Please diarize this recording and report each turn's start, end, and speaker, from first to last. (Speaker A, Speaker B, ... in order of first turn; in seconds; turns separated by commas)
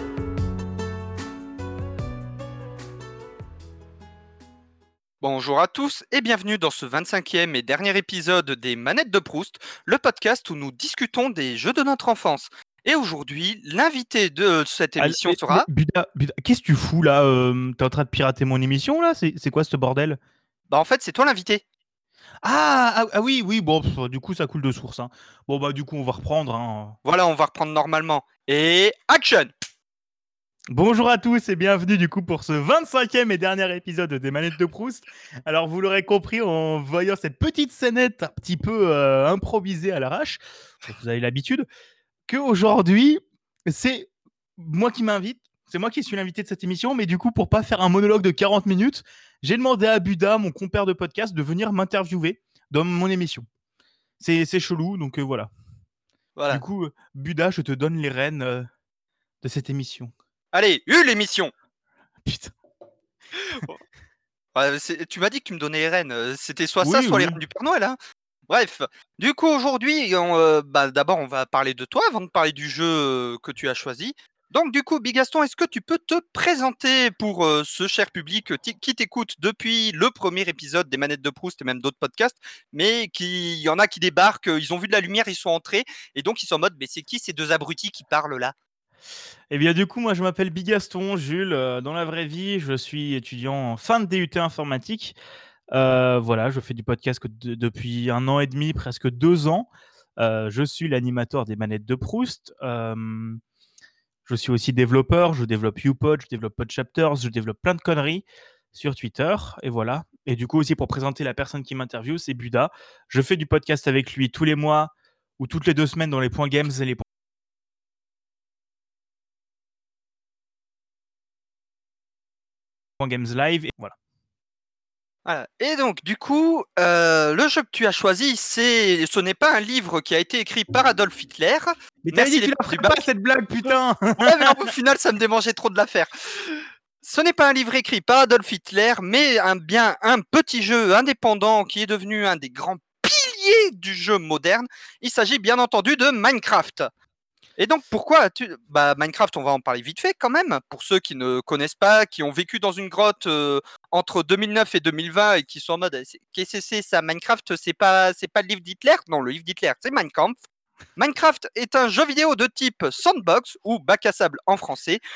Speaker A: 5.2-15.7, Speaker B: 15.0-20.2, Speaker A: 20.7-21.6, Speaker B: 22.4-27.0, Speaker A: 27.1-29.5, Speaker B: 30.7-41.7, Speaker B: 42.3-53.5, Speaker B: 54.2-55.5, Speaker A: 56.4-56.6, Speaker B: 56.5-58.7, Speaker B: 59.4-60.1, Speaker A: 60.5-61.5, Speaker B: 62.2-62.5, Speaker A: 64.5-68.0, Speaker B: 66.8-67.4, Speaker A: 68.5-88.5, Speaker B: 89.5-95.2, Speaker B: 95.7-103.4, Speaker B: 104.3-117.0, Speaker B: 123.0-124.0, Speaker A: 125.2-133.0, Speaker B: 132.0-134.7, Speaker A: 134.2-146.9, Speaker A: 147.6-160.4, Speaker A: 161.0-165.0